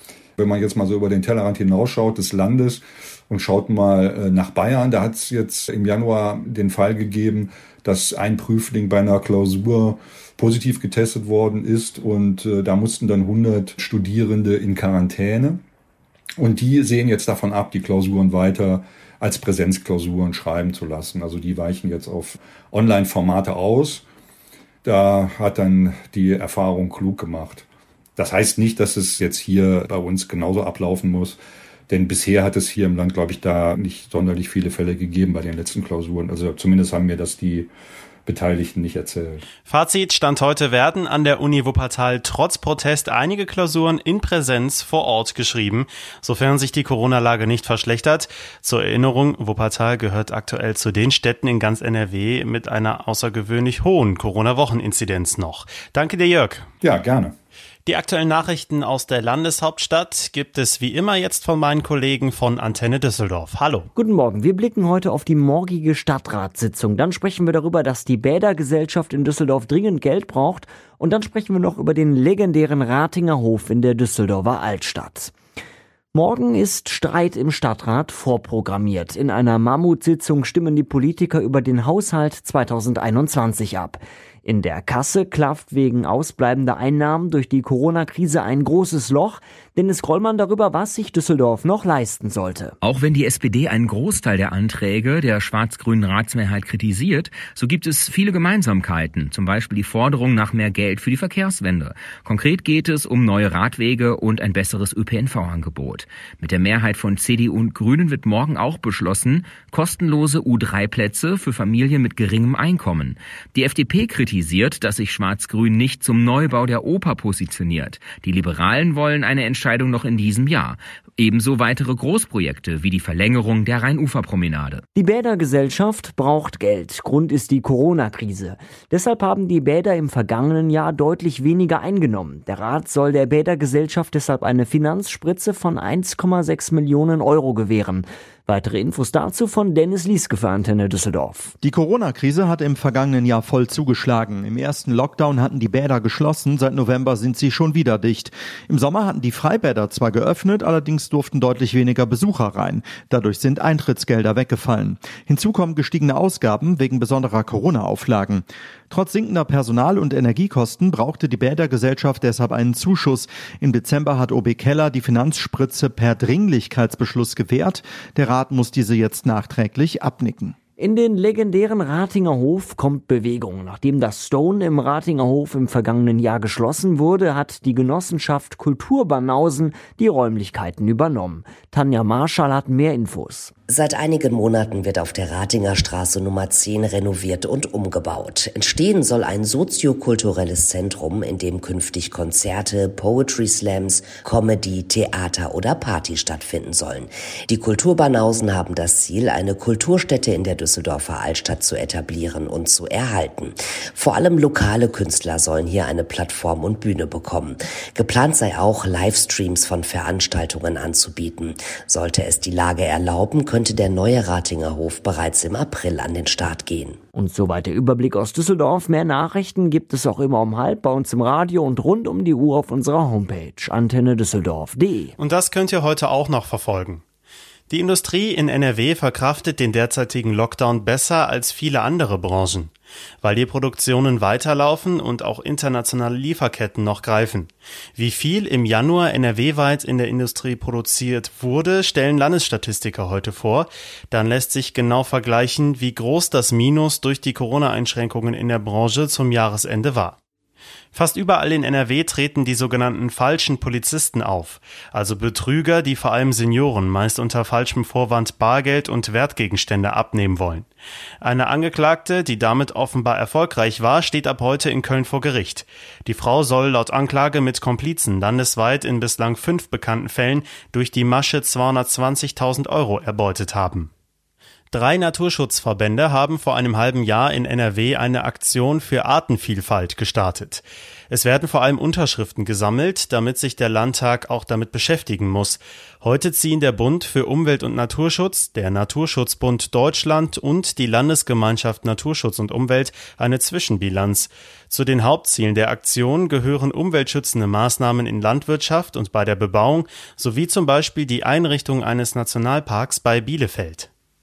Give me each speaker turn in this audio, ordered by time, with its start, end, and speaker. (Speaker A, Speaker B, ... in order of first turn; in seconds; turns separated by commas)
Speaker A: 0.4-15.6, Speaker A: 16.4-24.0, Speaker A: 24.8-27.6, Speaker A: 28.2-37.7, Speaker A: 38.2-39.4, Speaker B: 39.7-56.7, Speaker A: 56.8-57.3, Speaker B: 57.9-63.9, Speaker C: 63.9-75.3, Speaker C: 76.1-92.8, Speaker D: 92.8-124.8, Speaker C: 124.9-141.5, Speaker E: 141.6-170.5, Speaker C: 170.8-183.5, Speaker F: 183.7-217.0, Speaker C: 217.1-225.1, Speaker B: 225.2-227.0, Speaker B: 227.7-250.2, Speaker B: 250.9-260.7, Speaker B: 261.2-273.9, Speaker B: 274.7-303.9